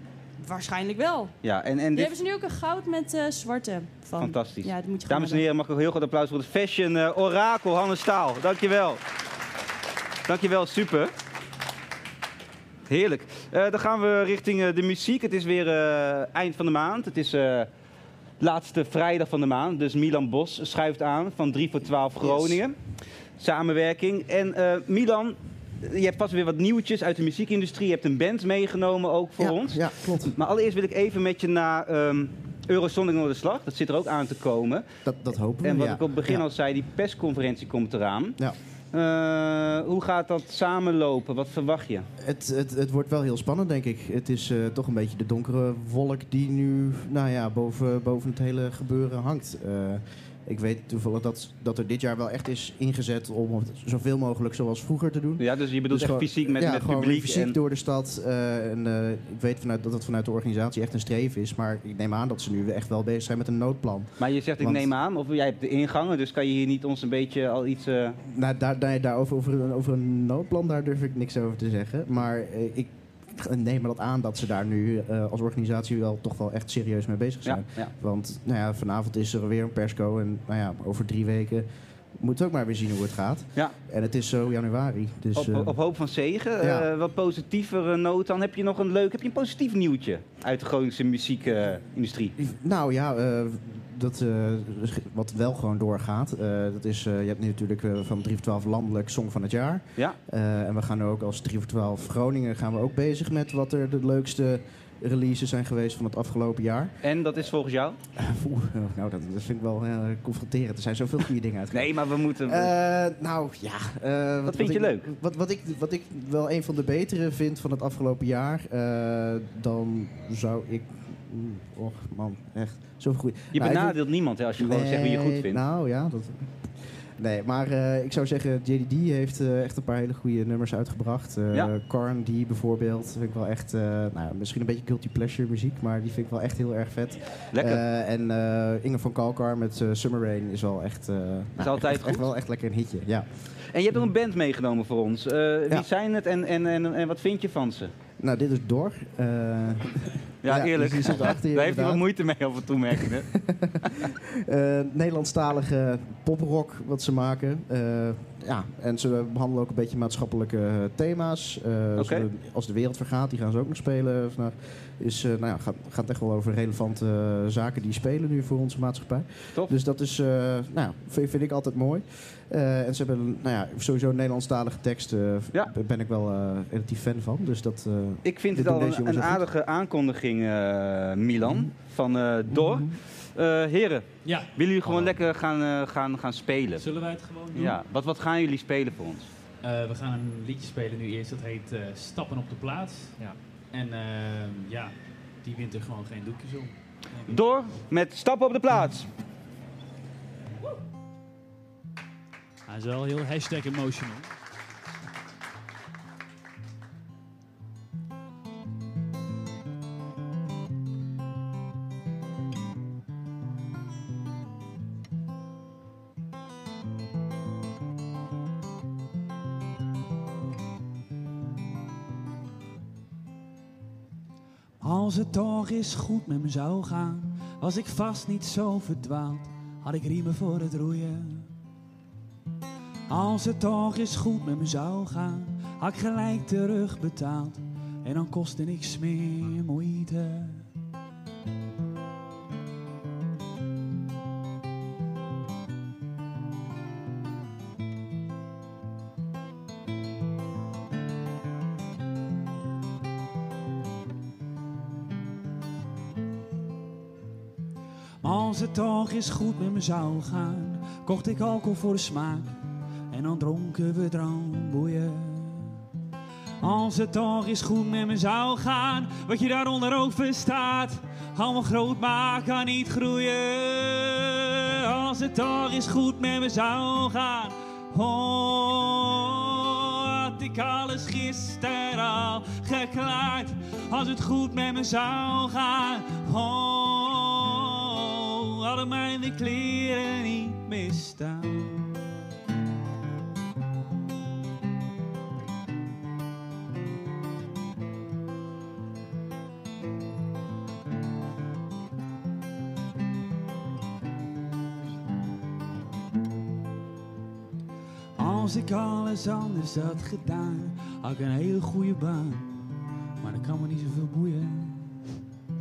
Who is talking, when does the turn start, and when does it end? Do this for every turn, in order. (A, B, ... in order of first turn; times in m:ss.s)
0:00.4-0:01.3 A
0:01.4-0:02.1 B
0:01.9-0:05.4 A
0:04.2-0:09.0 B
0:10.2-0:11.1 B
0:12.9-0:17.7 B
0:18.4-0:22.8 B
0:22.2-0:22.6 C
0:23.4-0:34.9 B
0:29.4-0:30.4 C
0:35.0-0:36.4 C
0:35.6-0:38.4 B
0:38.9-0:42.0 B
0:42.2-1:04.9 C
0:55.4-0:57.5 B
1:04.2-1:08.2 B
1:08.2-1:25.8 C
1:17.4-1:17.9 B
1:25.3-1:32.3 B
1:26.6-1:26.9 C
1:32.4-1:46.9 C
1:47.0-1:48.0 B
1:48.2-2:04.0 C
1:51.7-1:52.7 B
1:54.4-1:55.0 B
2:03.5-2:05.6 B
2:04.6-2:23.3 C
2:17.5-2:17.8 B
2:21.6-2:22.3 B
2:23.7-2:27.9 B
2:28.2-2:32.0 C
2:30.4-2:33.3 B
2:33.0-2:59.5 C
2:42.0-2:42.2 B
2:58.2-3:06.8 B
3:04.2-3:05.2 D
3:06.8-3:07.8 D
3:07.5-3:09.3 B
3:09.6-3:17.4 D
3:17.3-3:19.1 B
3:22.6-3:24.3 D
3:44.8-3:51.5 E
3:53.1-4:00.7 E
4:18.2-4:22.5 E
4:23.1-4:25.8 E
4:26.6-4:51.8 E
5:08.2-5:12.6 E
5:13.2-5:15.0 E